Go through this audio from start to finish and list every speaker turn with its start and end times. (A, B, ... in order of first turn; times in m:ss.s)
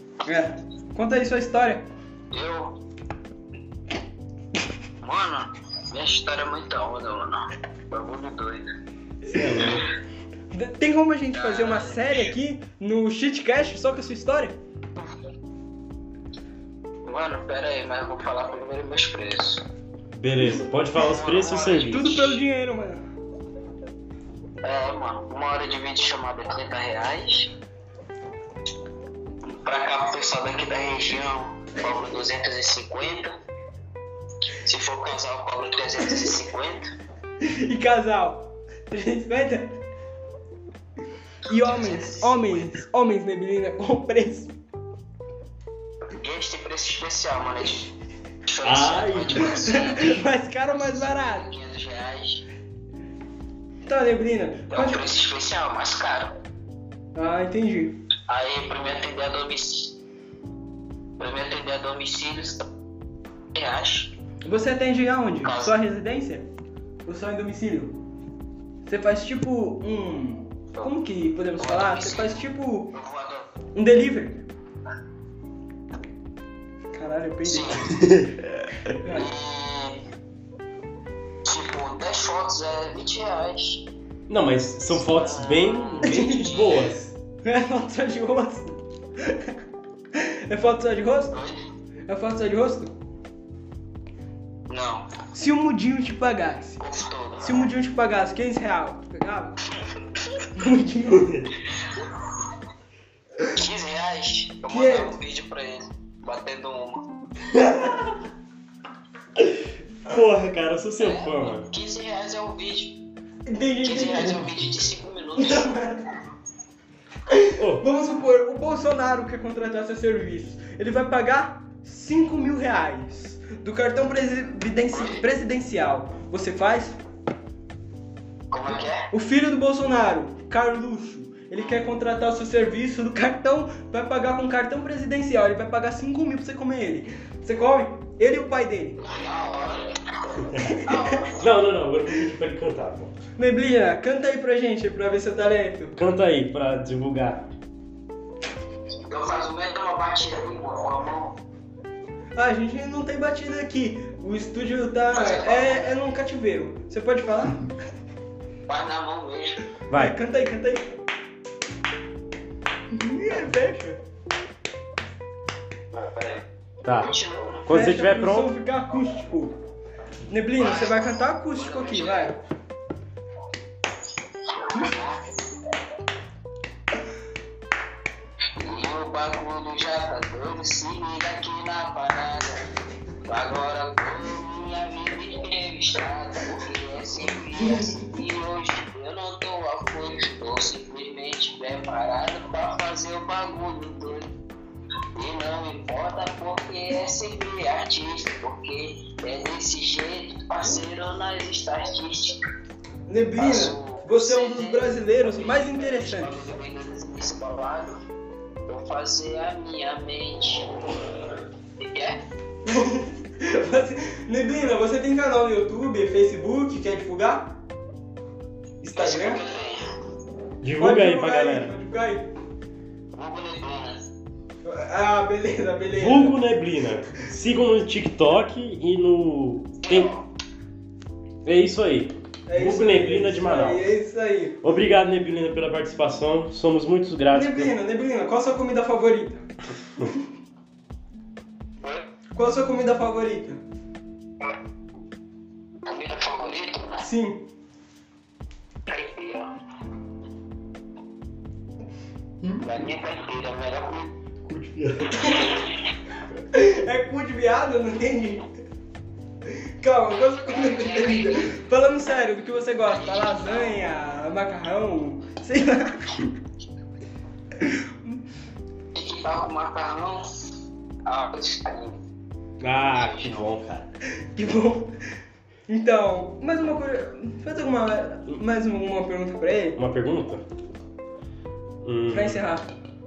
0:00.2-0:01.8 A
0:02.3-0:02.8 B
0:05.0-0:08.7 B
0:09.3-0:09.9 C
0:10.5-0:14.6 A
0:11.3-0:12.3 B
0:17.1-0:19.6 B
0:20.2-0:22.3 C
0:21.0-0:22.3 B
0:21.9-0:23.0 A
0:24.6-0:27.5 B
0:29.4-0:33.4 B
0:34.6-0:36.9 B
0:37.4-0:39.7 A
0:41.5-0:44.5 A
0:41.6-0:42.6 B
0:46.1-0:47.9 B
0:48.5-0:52.4 B
0:48.6-0:49.6 C
0:49.4-0:51.5 A
0:53.8-0:55.1 A
0:54.7-0:56.4 B
0:57.2-0:58.0 A
0:58.3-1:00.0 B
1:01.2-1:02.7 B
1:03.5-1:04.1 B
1:04.4-1:06.5 A
1:05.4-1:05.8 B
1:07.0-1:08.0 A
1:08.9-1:13.0 A
1:11.6-1:12.4 B
1:12.9-1:13.4 B
1:13.7-1:14.5 A
1:16.9-1:18.0 A
1:17.4-1:17.9 B
1:18.1-1:18.4 C
1:19.0-1:19.3 A
1:19.0-1:20.0 B
1:21.4-1:23.8 B
1:24.3-1:27.2 C
1:24.9-1:26.9 B
1:26.1-1:26.5 A
1:27.4-1:29.4 A
1:30.2-1:31.4 A
1:31.3-1:31.6 B
1:32.1-1:32.9 A
1:34.7-1:35.1 B
1:35.3-1:36.8 A
1:36.8-1:37.6 B
1:37.4-1:39.6 A
1:40.6-1:41.5 A
1:43.5-1:47.0 B
1:44.7-1:45.2 A
1:47.5-1:48.2 C
1:49.4-1:51.7 C
1:51.0-1:53.0 B
1:53.5-1:54.5 A
1:53.8-1:55.8 B
1:55.4-1:56.1 A
1:57.3-2:07.0 A
1:57.6-1:57.8 C
2:04.9-2:05.2 B
2:08.5-2:09.1 B
2:09.1-2:19.0 A
2:19.1-2:21.5 B
2:21.4-2:23.1 C
2:23.4-2:26.0 A
2:26.0-2:27.5 C
2:29.1-2:31.4 B
2:32.4-2:37.7 A
2:35.1-2:35.9 B
2:38.7-2:39.6 B
2:39.9-2:40.2 C
2:39.9-2:40.9 A
2:42.9-2:44.0 A
2:45.9-2:47.7 B
2:46.8-2:47.1 C
2:47.7-2:48.5 C
2:47.7-2:49.5 A
2:50.3-2:52.4 A
2:50.6-2:52.4 B
2:54.5-2:55.2 B
2:58.6-3:02.6 B
3:03.2-3:14.3 B
3:07.6-3:07.9 A
3:15.2-3:22.4 B
3:23.1-3:26.5 A
3:23.4-3:28.0 B
3:28.7-3:30.7 B
3:31.8-3:32.2 B
3:32.6-3:37.5 A
3:38.8-3:39.4 A
3:39.0-3:39.9 B
3:40.6-3:41.7 C
3:40.8-3:42.3 A
3:43.1-3:44.0 B
3:44.6-3:46.4 A
3:45.9-3:50.1 C
3:49.9-3:50.2 B
3:51.4-3:53.9 C
3:52.5-3:54.6 A
3:54.6-3:57.7 C
3:57.3-3:59.5 A
4:02.4-4:03.6 A
4:05.9-4:07.1 B
4:07.0-4:07.5 A
4:08.9-4:09.5 B
4:12.6-4:14.1 B
4:14.5-4:15.2 C
4:15.2-4:15.6 A
4:16.5-4:18.5 A
4:19.8-4:26.3 A
4:20.5-4:21.5 B
4:22.9-4:23.8 B
4:27.7-4:28.2 A
4:28.9-4:30.2 B
4:31.1-4:32.0 B
4:32.6-4:33.9 C
4:32.9-4:33.5 B
4:34.3-4:34.9 A
4:35.7-4:39.8 A
4:39.8-4:40.4 C
4:41.8-4:42.4 C
4:42.1-4:42.7 A